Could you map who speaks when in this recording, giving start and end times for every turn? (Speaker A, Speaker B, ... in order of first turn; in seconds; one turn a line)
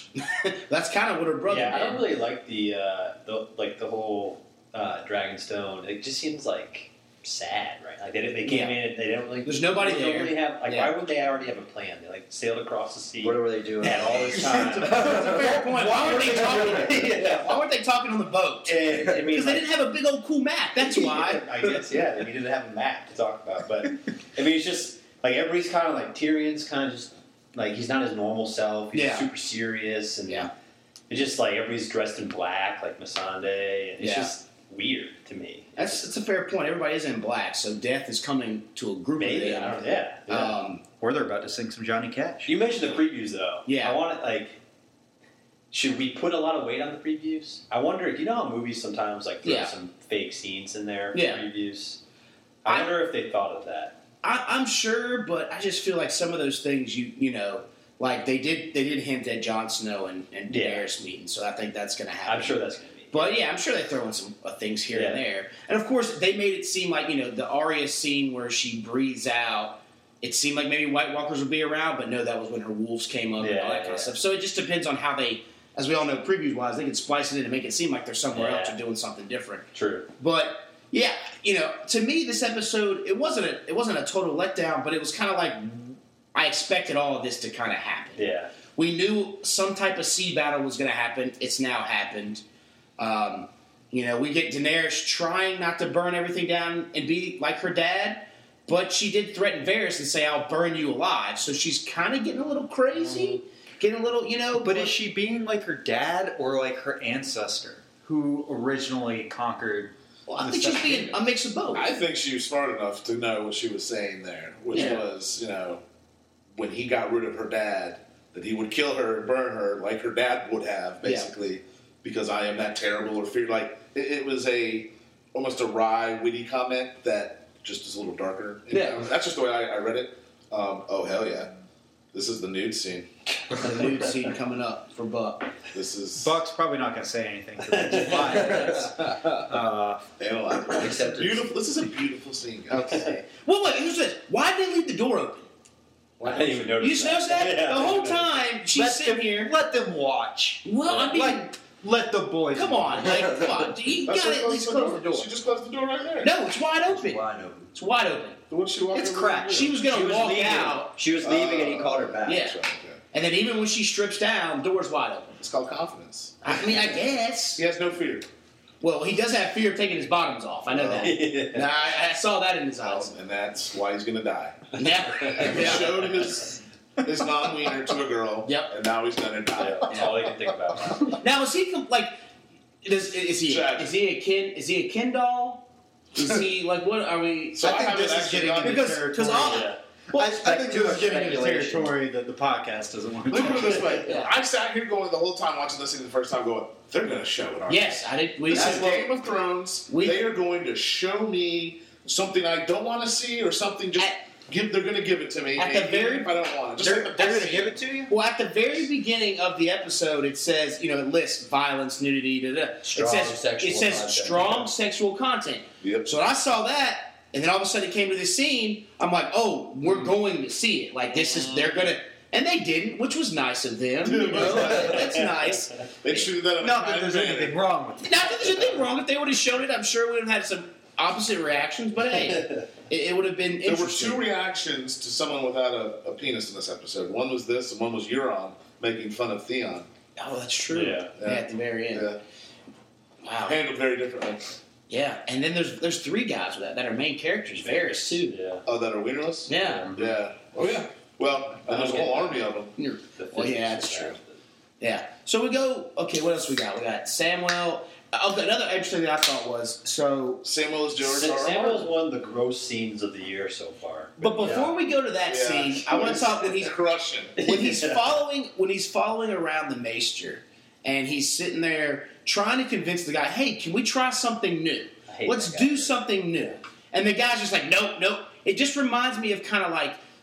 Speaker A: 0.2-2.0
Speaker B: 1.4-17.6
Speaker A: 8.4-8.8
Speaker A: 9.4-10.9
Speaker C: 13.2-17.4
Speaker A: 14.5-21.8
Speaker B: 18.6-19.7
Speaker B: 20.8-30.5
Speaker A: 28.9-29.3
Speaker B: 31.1-36.1
Speaker A: 34.0-34.3
Speaker A: 35.8-40.8
Speaker B: 39.2-40.6
Speaker D: 41.0-42.5
Speaker B: 42.5-44.6
Speaker A: 43.6-44.0
Speaker B: 45.7-52.0
Speaker A: 49.4-49.7
Speaker A: 51.1-51.4
Speaker B: 52.6-54.0
Speaker A: 54.2-79.7
Speaker B: 60.5-60.9
Speaker B: 62.2-63.4
Speaker B: 64.9-65.2
Speaker B: 73.4-74.1
Speaker B: 78.3-78.8
Speaker B: 79.7-80.1
Speaker A: 80.2-92.4
Speaker B: 88.2-88.5
Speaker A: 93.0-104.9
Speaker D: 104.5-111.2
Speaker A: 110.3-111.9
Speaker E: 111.7-115.8
Speaker A: 114.7-115.0
Speaker E: 116.5-131.5
Speaker A: 121.0-121.3
Speaker A: 128.7-129.0
Speaker E: 132.1-133.1
Speaker A: 133.6-135.6
Speaker E: 135.7-136.4
Speaker D: 136.2-140.0
Speaker B: 137.7-138.7
Speaker C: 138.2-138.8
Speaker E: 140.2-143.1
Speaker C: 140.8-141.4
Speaker A: 142.7-145.5
Speaker E: 146.2-146.8
Speaker B: 146.2-148.4
Speaker A: 146.8-149.5
Speaker D: 148.7-153.3
Speaker A: 150.6-151.5
Speaker A: 152.5-155.3
Speaker C: 153.2-153.5
Speaker E: 154.0-156.3
Speaker A: 156.2-158.4
Speaker C: 156.9-157.7
Speaker E: 158.5-159.8
Speaker D: 158.9-159.8
Speaker A: 159.5-160.9
Speaker C: 159.9-162.4
Speaker E: 161.2-163.0
Speaker A: 162.2-162.6
Speaker A: 163.1-165.3
Speaker E: 165.4-166.9
Speaker A: 166.4-167.6
Speaker E: 167.6-168.3
Speaker A: 168.8-173.1
Speaker E: 170.7-171.1
Speaker B: 171.0-171.7
Speaker E: 172.8-180.3
Speaker A: 174.8-176.1
Speaker B: 175.2-176.3
Speaker A: 178.4-178.7
Speaker B: 179.6-181.2
Speaker A: 181.2-182.2
Speaker A: 182.8-190.3
Speaker E: 183.4-183.9
Speaker E: 187.6-189.0
Speaker D: 187.6-193.9
Speaker B: 189.3-189.8
Speaker C: 190.2-191.9
Speaker E: 193.3-207.7
Speaker A: 193.9-194.3
Speaker A: 197.7-199.1
Speaker A: 199.9-200.2
Speaker A: 205.6-206.3
Speaker D: 206.8-208.1
Speaker A: 208.1-226.3
Speaker C: 212.9-214.7
Speaker E: 215.8-216.1
Speaker B: 221.3-221.8
Speaker E: 224.0-225.1
Speaker B: 224.2-225.5
Speaker E: 226.0-227.6
Speaker D: 226.6-228.4
Speaker A: 228.0-234.2
Speaker E: 233.6-239.9
Speaker A: 240.2-242.1
Speaker B: 240.7-241.1
Speaker E: 241.2-242.2
Speaker A: 243.2-243.6
Speaker E: 243.4-244.6
Speaker A: 244.9-248.3
Speaker B: 247.5-248.6
Speaker E: 248.7-252.7
Speaker A: 249.5-249.9
Speaker B: 249.5-250.1
Speaker B: 251.7-252.4
Speaker A: 252.8-254.2
Speaker B: 253.2-254.4
Speaker A: 254.8-260.4
Speaker E: 260.4-261.9
Speaker B: 261.0-264.7
Speaker A: 264.2-266.7
Speaker E: 265.2-267.4
Speaker B: 267.4-268.1
Speaker A: 267.4-280.0
Speaker B: 275.1-275.9